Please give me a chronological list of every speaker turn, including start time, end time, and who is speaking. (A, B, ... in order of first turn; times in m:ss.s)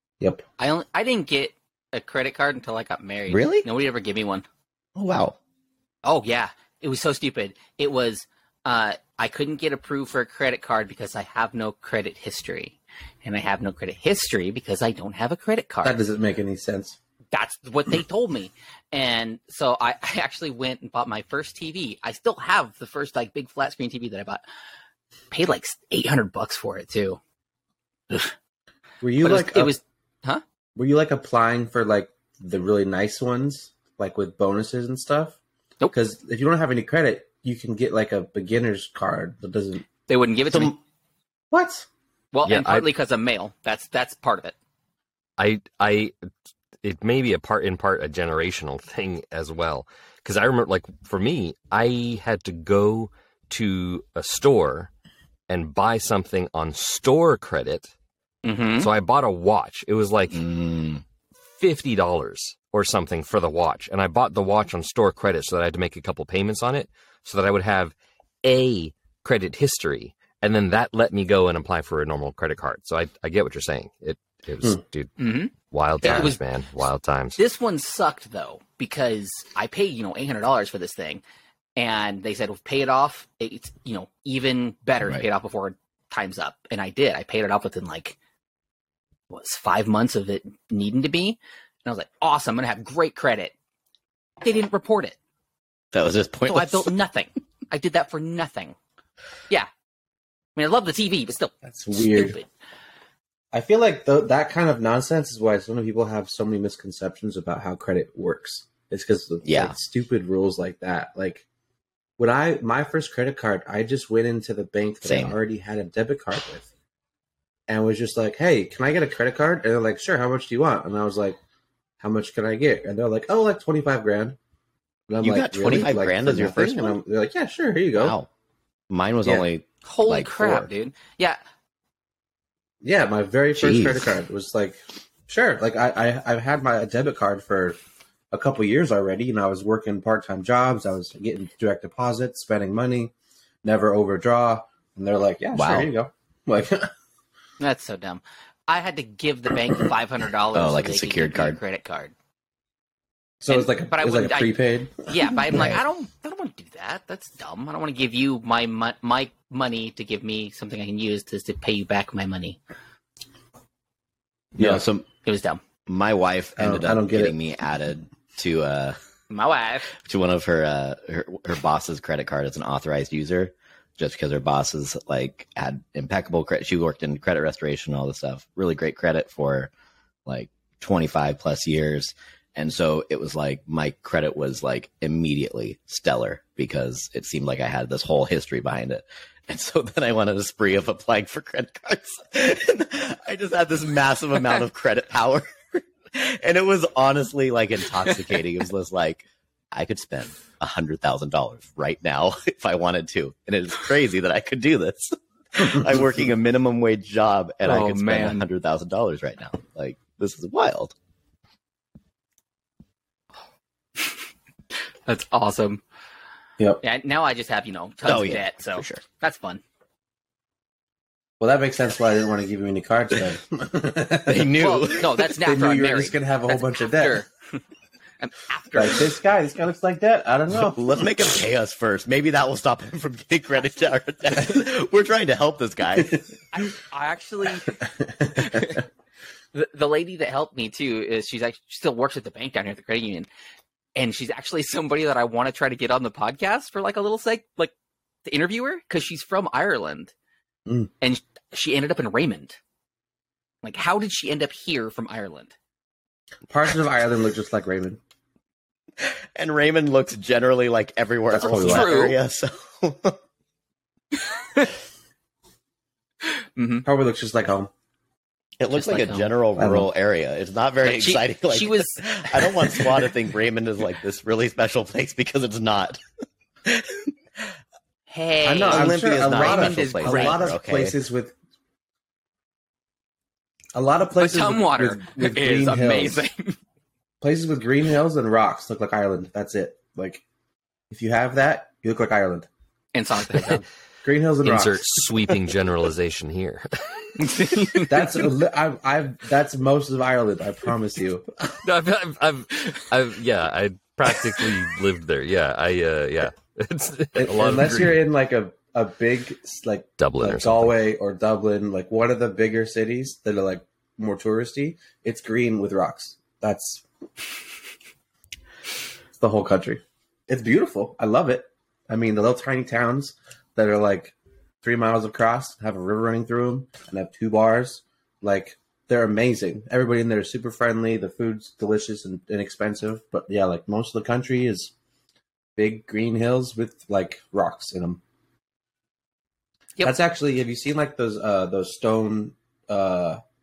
0:00.6-0:04.4 A
0:03.3-0:03.7 B
0:05.0-0:05.4 B
0:06.0-0:16.0 A
0:15.8-0:17.0 C
0:17.3-0:24.4 A
0:25.3-0:27.2 A
0:29.0-0:29.7 C
0:29.2-0:30.4 A
0:30.8-0:35.4 C
0:35.9-0:39.9 C
0:40.1-0:40.8 A
0:40.5-0:40.7 B
0:41.5-0:41.8 C
0:42.3-0:44.5 A
0:42.4-0:42.9 D
0:45.4-0:46.1 D
0:46.8-0:54.9 D
0:55.5-0:57.9 D
0:58.4-0:58.9 A
0:58.8-1:00.4 D
1:00.3-1:01.0 B
1:01.5-1:17.4 D
1:15.2-1:16.4 A
1:17.4-1:21.2 A
1:21.8-1:28.2 A
1:29.3-1:33.5 A
1:34.4-1:35.2 A
1:35.9-1:36.9 B
1:36.5-1:38.8 A
1:40.6-1:42.5 A
1:41.6-1:42.4 C
1:43.5-1:51.4 C
1:49.4-1:49.8 B
1:52.2-1:56.7 C
1:55.0-1:55.4 B
1:57.7-2:01.4 C
2:02.0-2:04.4 C
2:05.1-2:08.2 C
2:05.2-2:07.0 B
2:07.9-2:08.3 B
2:08.9-2:10.7 B
2:09.8-2:11.4 A
2:12.8-2:17.8 C
2:13.5-2:14.1 B
2:18.3-2:23.1 C
2:23.6-2:26.9 C
2:25.5-2:25.9 B
2:27.6-2:32.1 A
2:30.5-2:31.6 B
2:33.4-2:35.1 C
2:33.5-2:42.6 A
2:35.5-2:35.8 B
2:44.6-2:45.0 C
2:44.6-2:45.0 B
2:45.2-2:45.6 A
2:45.9-2:49.0 B
2:46.6-2:47.3 C
2:49.3-2:49.9 A
2:49.9-2:59.7 B
3:00.2-3:30.9 B
3:27.6-3:28.4 A
3:35.0-3:35.8 A
3:36.8-3:39.6 A
3:38.0-3:39.0 B
3:41.4-3:44.5 C
3:44.2-3:45.3 B
3:44.6-3:47.6 A
3:45.4-3:47.2 C
3:48.2-3:49.1 A
3:48.7-3:51.1 C
3:50.5-3:56.2 B
3:56.5-3:57.8 A
3:57.9-3:58.8 C
3:58.4-3:58.7 A
3:59.5-4:03.3 A
4:04.0-4:07.7 A
4:08.2-4:10.1 A
4:11.0-4:12.6 A
4:13.6-4:15.5 A
4:16.5-4:18.0 C
4:19.0-4:23.2 B
4:21.3-4:22.1 C
4:21.4-4:22.2 A
4:26.6-4:26.8 A
4:26.8-4:27.7 C
4:28.6-4:36.0 B
4:28.7-4:29.3 A
4:29.6-4:29.9 C
4:30.8-4:33.0 A
4:36.6-4:37.5 B
4:38.1-4:40.5 A
4:38.4-4:41.3 C
4:38.6-4:41.0 B
4:43.7-4:46.2 C
4:44.2-4:46.6 A
4:47.2-4:50.2 C
4:50.9-4:52.5 C
4:52.9-4:53.6 A
4:54.0-4:54.8 C
4:54.4-4:57.8 D
4:57.2-4:57.9 A
4:57.8-5:01.3 C
5:01.5-5:08.0 D
5:07.2-5:16.8 C
5:10.0-5:10.7 D
5:19.2-5:34.7 C
5:35.6-5:38.0 C
5:39.8-5:43.2 C